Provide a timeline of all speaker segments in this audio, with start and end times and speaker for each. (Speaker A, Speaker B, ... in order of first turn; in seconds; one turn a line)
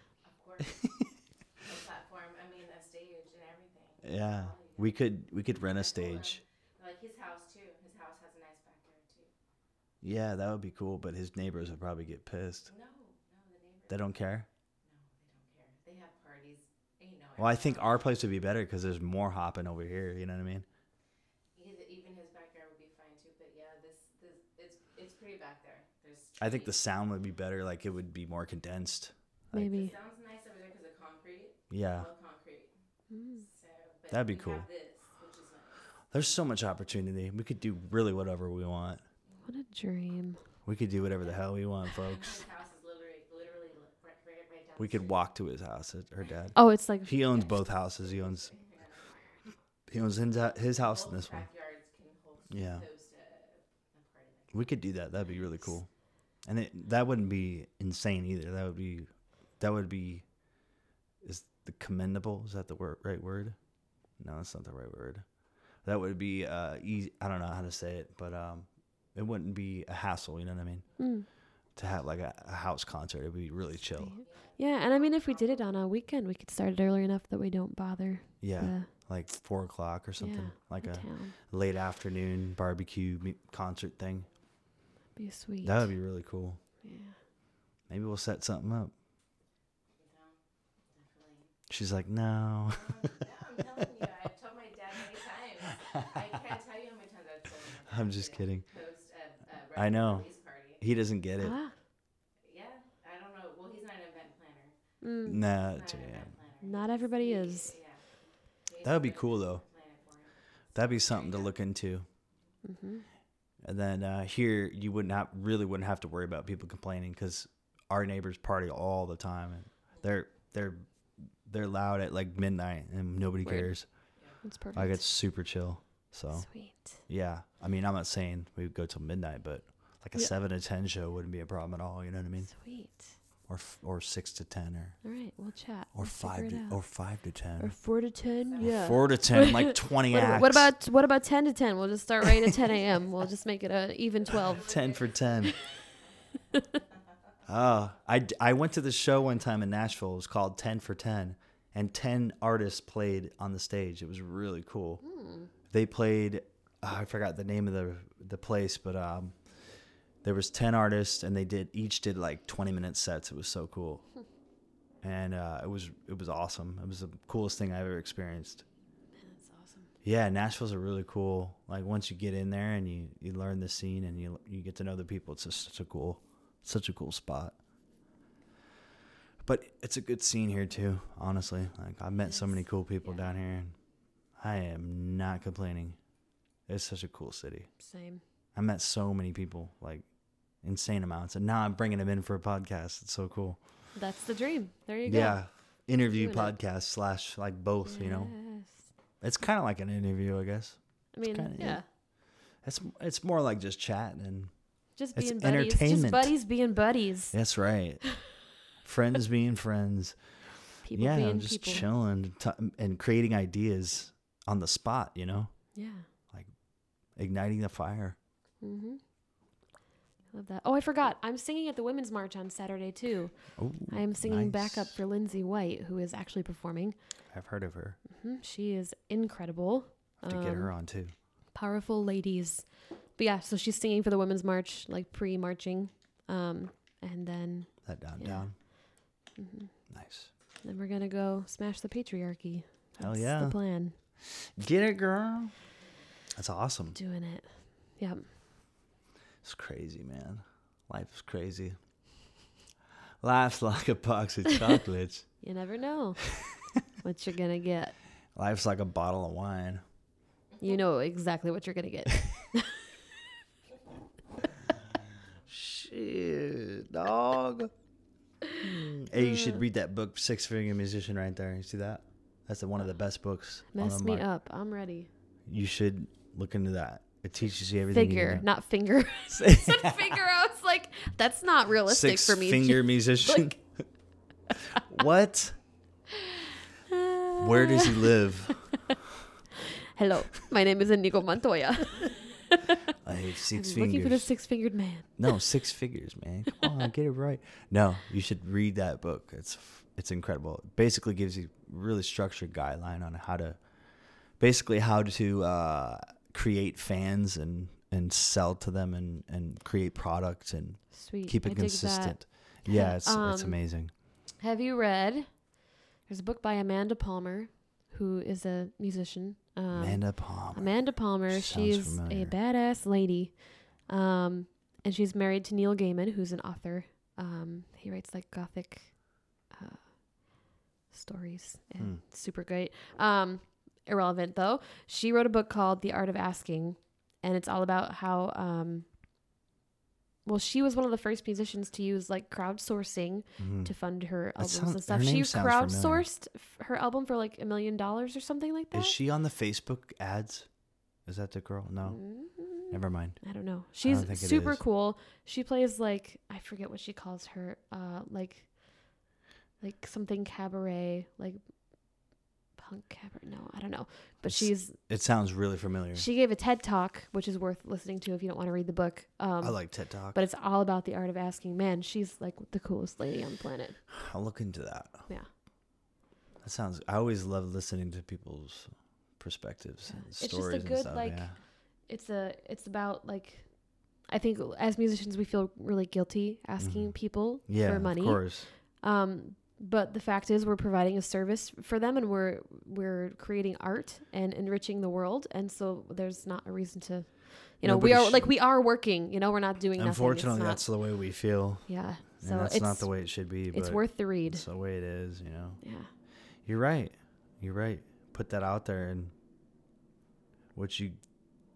Speaker A: 0.2-0.8
Speaker B: 0.6-1.1
Speaker A: 1.6-5.0
Speaker B: 4.0-6.4
Speaker A: 5.6-9.3
Speaker B: 10.0-12.7
Speaker A: 12.7-14.2
Speaker B: 13.9-14.5
Speaker A: 14.8-18.1
Speaker B: 17.4-20.7
Speaker A: 21.6-26.8
Speaker B: 26.4-29.9
Speaker C: 29.5-29.9
Speaker A: 29.6-32.7
Speaker B: 31.7-32.1
Speaker C: 33.1-33.5
Speaker A: 33.4-36.2
Speaker B: 34.1-34.7
Speaker B: 36.1-39.0
Speaker C: 39.5-40.4
Speaker B: 40.6-42.4
Speaker A: 41.2-45.3
Speaker B: 44.8-48.5
Speaker A: 46.2-46.5
Speaker C: 46.5-47.1
Speaker A: 47.2-49.2
Speaker B: 49.9-51.5
Speaker A: 50.4-55.5
Speaker B: 52.5-52.9
Speaker B: 54.5-55.9
Speaker B: 56.5-60.2
Speaker B: 61.2-63.5
Speaker B: 64.2-65.2
Speaker B: 65.8-70.9
Speaker C: 71.0-71.3
Speaker B: 71.8-74.2
Speaker C: 74.0-78.9
Speaker A: 74.1-75.9
Speaker B: 78.4-84.3
Speaker C: 80.2-81.3
Speaker C: 85.2-85.9
Speaker B: 85.6-86.6
Speaker C: 86.8-87.1
Speaker B: 87.9-88.9
Speaker A: 90.0-90.4
Speaker A: 90.9-91.5
Speaker B: 91.7-93.2
Speaker A: 92.7-100.8
Speaker B: 97.9-98.6
Speaker B: 99.7-100.2
Speaker B: 100.8-101.5
Speaker C: 101.4-101.7
Speaker A: 102.4-104.7
Speaker C: 105.0-105.4
Speaker B: 105.3-106.3
Speaker A: 105.5-108.0
Speaker C: 106.6-107.7
Speaker A: 108.7-111.5
Speaker B: 108.8-109.6
Speaker B: 110.7-112.0
Speaker C: 112.6-113.0
Speaker B: 113.6-120.9
Speaker B: 121.5-123.9
Speaker C: 123.4-123.7
Speaker C: 124.4-125.0
Speaker B: 124.8-126.5
Speaker C: 126.3-127.0
Speaker B: 127.1-132.5
Speaker C: 132.5-133.1
Speaker B: 133.5-135.0
Speaker C: 135.0-136.8
Speaker B: 135.9-137.7
Speaker C: 137.6-144.7
Speaker A: 138.4-139.5
Speaker B: 138.6-140.7
Speaker A: 144.2-147.0
Speaker B: 144.3-145.6
Speaker C: 146.5-146.8
Speaker B: 147.4-155.0
Speaker C: 155.0-155.5
Speaker B: 155.7-159.3
Speaker B: 160.2-164.1
Speaker B: 165.0-168.6
Speaker C: 169.2-169.9
Speaker B: 170.0-177.6
Speaker B: 179.4-183.7
Speaker B: 184.4-186.0
Speaker B: 186.7-187.7
Speaker C: 187.8-188.2
Speaker B: 188.6-190.1
Speaker B: 190.6-193.6
Speaker C: 193.9-195.4
Speaker B: 195.1-198.3
Speaker C: 196.2-196.5
Speaker C: 197.8-198.9
Speaker B: 199.2-201.8
Speaker C: 201.1-201.8
Speaker B: 202.6-204.5
Speaker C: 204.9-207.3
Speaker B: 205.1-206.3
Speaker B: 207.3-208.0
Speaker B: 208.8-210.2
Speaker C: 210.8-211.9
Speaker B: 210.9-215.5
Speaker C: 215.7-216.1
Speaker B: 217.2-218.2
Speaker C: 218.6-219.0
Speaker C: 220.3-223.3
Speaker B: 223.6-224.9
Speaker C: 223.9-226.9
Speaker B: 227.3-228.0
Speaker C: 228.1-230.7
Speaker B: 230.2-231.1
Speaker C: 231.6-232.7
Speaker C: 233.2-238.5
Speaker B: 237.9-238.5
Speaker C: 239.4-239.7
Speaker B: 239.9-240.3
Speaker C: 240.6-243.9
Speaker B: 243.0-243.6
Speaker B: 244.2-245.5
Speaker B: 246.3-247.0
Speaker C: 246.9-248.2
Speaker B: 249.4-251.8
Speaker B: 253.2-255.3
Speaker C: 255.4-256.2
Speaker B: 256.3-256.8
Speaker C: 257.0-257.9
Speaker B: 258.4-259.8
Speaker C: 260.6-262.9
Speaker B: 265.5-267.7
Speaker B: 268.6-274.3
Speaker C: 269.2-269.6
Speaker C: 273.7-275.1
Speaker B: 275.5-278.5
Speaker C: 277.9-283.6
Speaker B: 279.3-280.2
Speaker B: 281.9-283.6
Speaker B: 284.7-285.6
Speaker C: 286.1-289.0
Speaker B: 287.3-288.7
Speaker C: 289.6-292.9
Speaker B: 293.0-294.3
Speaker C: 293.5-295.4
Speaker B: 295.2-303.6
Speaker B: 304.4-313.9
Speaker C: 310.9-313.6
Speaker C: 314.4-315.3
Speaker C: 316.1-323.3
Speaker B: 319.7-320.7
Speaker B: 321.3-322.3
Speaker C: 323.9-328.9
Speaker C: 329.5-329.8
Speaker C: 330.9-338.9
Speaker C: 340.2-348.9
Speaker B: 343.4-343.7
Speaker B: 344.4-346.1
Speaker B: 348.7-350.5
Speaker B: 351.1-352.0
Speaker C: 351.8-358.5
Speaker B: 352.7-353.2
Speaker B: 353.8-354.6
Speaker C: 359.6-361.4
Speaker C: 362.6-364.8
Speaker B: 364.2-366.1
Speaker C: 365.9-369.6
Speaker B: 369.4-370.2
Speaker C: 370.1-373.8
Speaker B: 373.9-375.1
Speaker B: 376.4-381.4
Speaker C: 379.9-381.3
Speaker C: 381.9-383.5
Speaker C: 384.1-400.6
Speaker B: 386.6-388.5
Speaker B: 397.6-398.3
Speaker B: 399.8-401.7
Speaker C: 401.7-402.9
Speaker B: 402.2-405.6
Speaker C: 403.5-404.4
Speaker C: 405.6-405.9
Speaker B: 406.4-409.1
Speaker B: 410.6-411.0